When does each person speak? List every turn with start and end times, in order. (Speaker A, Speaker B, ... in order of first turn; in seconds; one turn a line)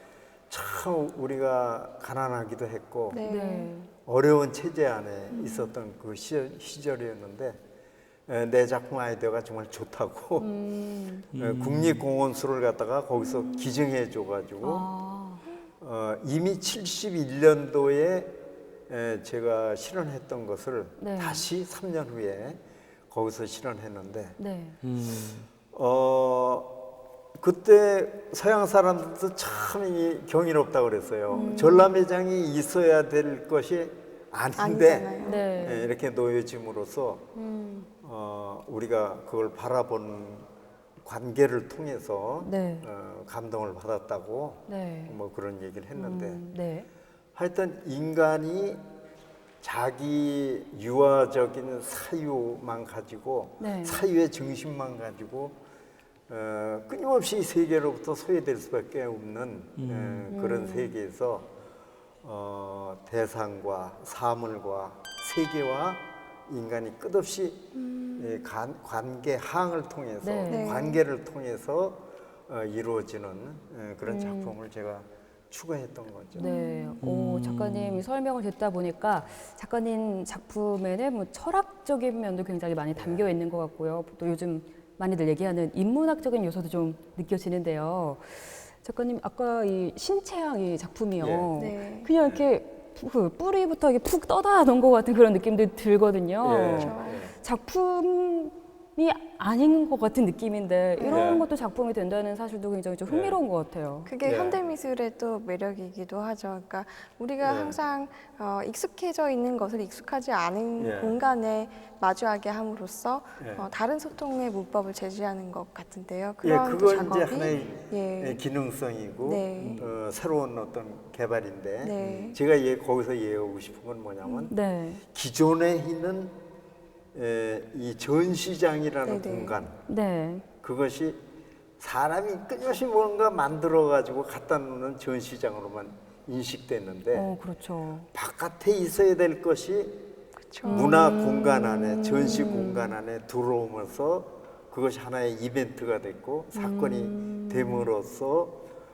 Speaker A: 0.5-3.2
Speaker B: 3.1-3.7
Speaker C: 3.2-3.9
Speaker A: 4.0-7.6
Speaker B: 5.3-5.7
Speaker A: 8.3-10.5
Speaker C: 10.4-11.3
Speaker D: 11.3-12.0
Speaker A: 11.3-14.9
Speaker C: 14.6-15.4
Speaker A: 15.8-24.4
Speaker C: 21.0-21.5
Speaker C: 24.4-24.8
Speaker D: 24.8-25.5
Speaker A: 25.7-26.8
Speaker A: 27.4-37.3
Speaker C: 31.3-31.9
Speaker B: 34.6-35.4
Speaker C: 35.2-35.9
Speaker C: 37.4-37.9
Speaker A: 38.0-40.5
Speaker A: 41.0-46.5
Speaker C: 42.4-42.9
Speaker C: 44.7-45.1
Speaker C: 45.9-46.9
Speaker A: 47.4-48.9
Speaker A: 49.6-55.6
Speaker C: 53.6-54.0
Speaker A: 56.3-61.5
Speaker D: 59.8-60.2
Speaker C: 60.3-60.9
Speaker A: 62.2-76.5
Speaker B: 67.8-68.4
Speaker C: 70.2-70.9
Speaker B: 70.5-71.0
Speaker C: 74.0-74.5
Speaker B: 76.4-77.0
Speaker C: 76.4-104.1
Speaker D: 77.0-78.0
Speaker A: 82.9-83.3
Speaker A: 91.2-91.5
Speaker B: 91.5-92.1
Speaker A: 92.2-92.5
Speaker A: 96.4-97.3
Speaker B: 96.7-97.2
Speaker B: 101.0-101.4
Speaker A: 101.1-101.5
Speaker A: 103.1-103.4
Speaker B: 104.0-118.4
Speaker A: 104.2-104.6
Speaker A: 107.4-107.8
Speaker A: 110.8-111.2
Speaker A: 113.4-113.7
Speaker A: 116.4-124.5
Speaker B: 119.2-119.9
Speaker B: 121.8-122.4
Speaker B: 124.2-124.5
Speaker C: 124.5-125.0
Speaker A: 125.1-126.4
Speaker A: 127.1-129.8
Speaker B: 129.0-129.6
Speaker C: 129.9-130.4
Speaker A: 130.6-131.2
Speaker A: 131.8-137.3
Speaker C: 137.1-138.1
Speaker A: 138.1-140.0
Speaker B: 140.4-141.0
Speaker C: 140.6-142.9
Speaker A: 140.7-148.6
Speaker C: 146.5-147.8